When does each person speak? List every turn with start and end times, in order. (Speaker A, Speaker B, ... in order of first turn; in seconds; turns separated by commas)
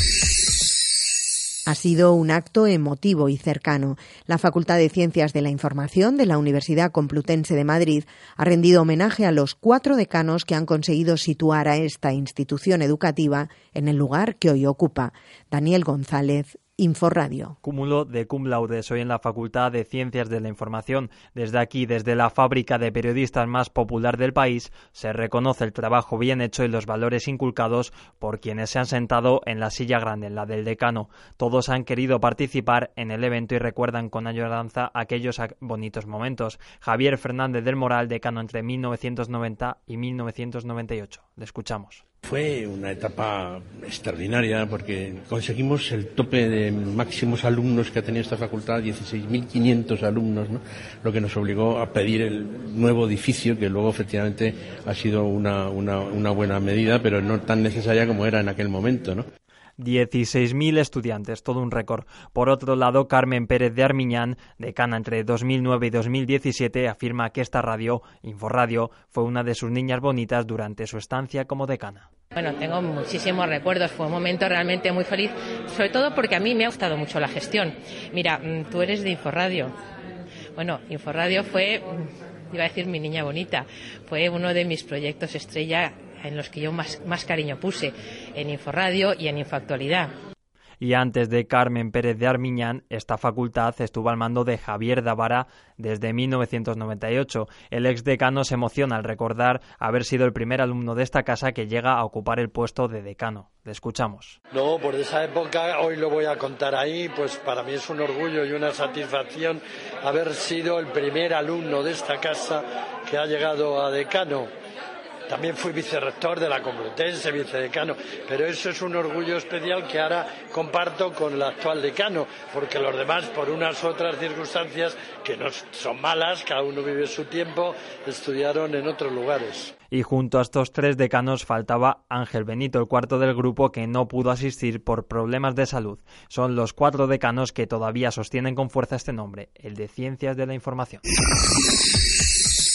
Speaker A: 1.7-17.6, Speaker B: 17.6-42.0, Speaker C: 42.2-59.3, Speaker B: 59.8-72.1, Speaker D: 72.3-79.8, Speaker D: 80.5-81.9, Speaker D: 82.5-90.1, Speaker B: 90.8-104.3, Speaker E: 104.5-114.5, Speaker E: 115.3-129.7, Speaker B: 129.9-141.0